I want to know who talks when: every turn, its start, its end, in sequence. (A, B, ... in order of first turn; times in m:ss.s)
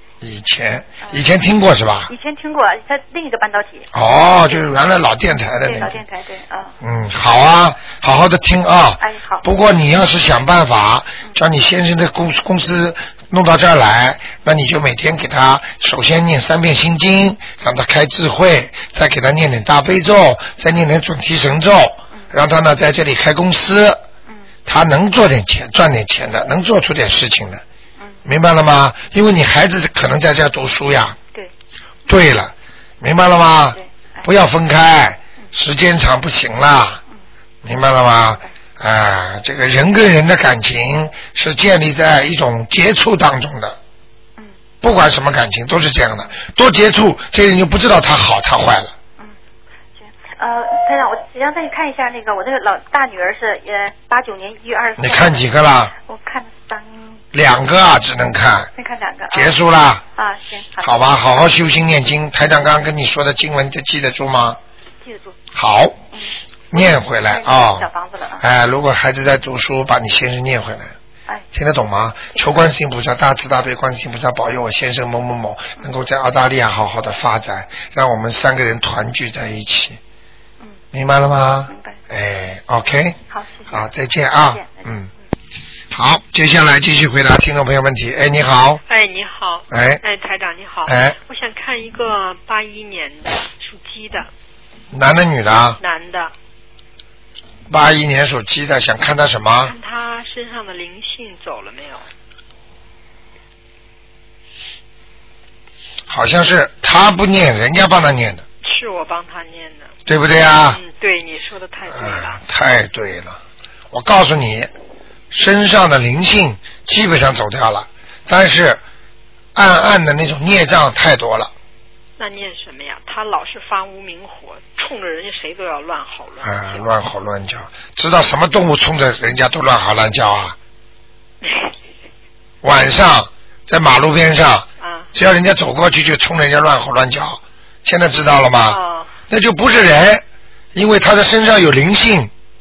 0:00.2-0:02.1 A
0:02.1-0:03.9 B
0:03.9-0:06.0 A
0:05.6-0:06.8 B
0:06.8-0:24.0 A
0:09.0-0:09.4 B
0:24.7-0:27.6 A
0:28.3-0:31.2 A
0:32.1-0:37.0 A
0:33.8-0:34.3 B
0:37.6-0:43.8 A
0:44.8-0:48.9 A
0:50.0-0:55.5 B
0:55.0-0:55.9 A
0:56.0-0:57.2 B
0:57.3-0:58.7 A
0:58.8-0:59.5 B
0:59.3-1:00.0 A
1:00.2-1:01.0 B
1:00.8-1:04.6 A
1:05.0-1:05.4 B
1:05.5-1:06.0 A
1:06.1-1:08.4 B
1:06.7-1:07.9 A
1:08.4-1:11.0 A
1:11.5-1:20.0 A
1:12.4-1:12.6 B
1:20.9-1:23.2 A
1:21.7-1:22.0 B
1:23.3-1:24.9 B
1:23.7-1:25.1 A
1:25.9-1:28.8 A
1:28.9-1:34.3 C
1:29.7-1:30.0 A
1:30.9-1:31.2 A
1:34.9-1:35.8 A
1:35.8-1:36.3 C
1:37.7-1:39.8 A
1:39.6-1:42.0 C
1:46.1-1:48.4 A
1:48.6-1:49.9 C
1:50.1-1:50.8 A
1:50.7-1:52.4 C
1:51.9-1:53.4 A
1:53.9-1:54.7 A
1:55.3-1:58.8 A
1:59.6-2:01.5 A
2:02.2-2:06.9 C
2:06.4-2:10.6 A
2:11.4-2:11.7 C
2:12.6-2:22.3 A
2:14.8-2:15.1 C
2:18.7-2:19.1 C